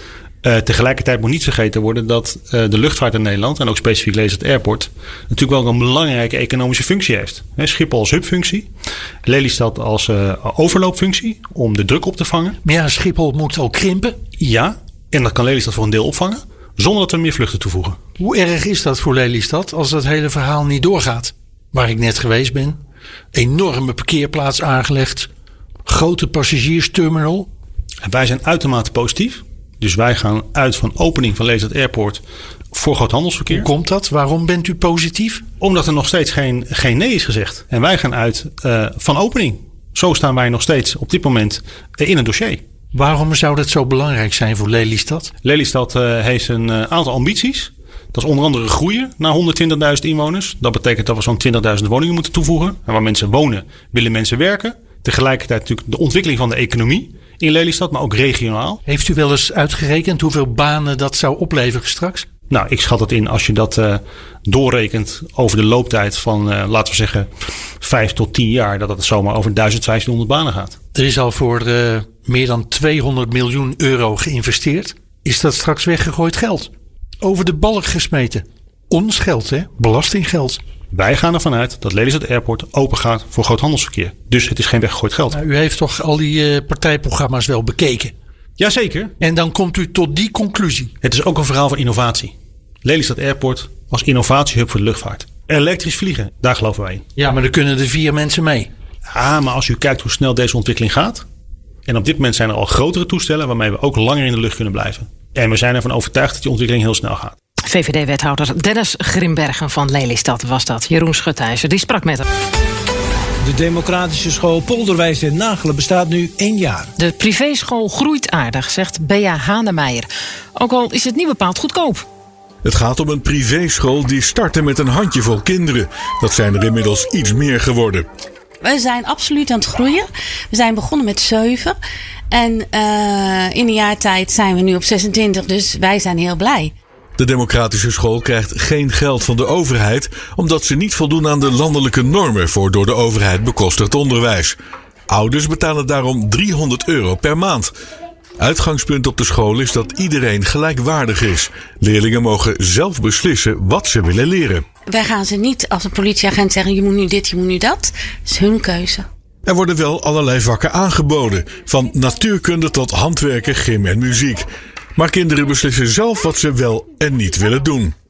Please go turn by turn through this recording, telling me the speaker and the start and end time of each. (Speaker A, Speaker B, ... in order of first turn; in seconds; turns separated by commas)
Speaker A: 0.4-8.7, Speaker A: 9.3-12.5, Speaker B: 12.6-14.2, Speaker A: 14.4-17.9, Speaker B: 18.2-22.8, Speaker B: 23.3-25.3, Speaker B: 25.9-27.5, Speaker A: 28.0-32.2, Speaker A: 32.7-33.7, Speaker B: 33.5-35.5, Speaker A: 35.6-42.6, Speaker B: 42.9-45.3, Speaker A: 45.4-58.8, Speaker B: 58.9-62.3, Speaker A: 62.5-67.3, Speaker A: 67.8-70.7, Speaker B: 70.9-76.7, Speaker B: 77.2-80.6, Speaker A: 80.9-85.3, Speaker B: 85.3-88.1, Speaker A: 88.6-89.1, Speaker B: 89.2-90.9, Speaker A: 91.0-97.0, Speaker B: 97.2-98.7, Speaker A: 99.1-101.2, Speaker A: 101.9-107.3, Speaker C: 107.7-112.2, Speaker D: 113.4-116.9, Speaker C: 117.0-122.0, Speaker E: 122.6-128.1, Speaker F: 128.6-131.7, Speaker F: 132.3-136.7, Speaker E: 137.2-144.6, Speaker E: 145.1-147.7, Speaker E: 148.4-154.6, Speaker F: 154.9-159.0, Speaker E: 159.4-167.9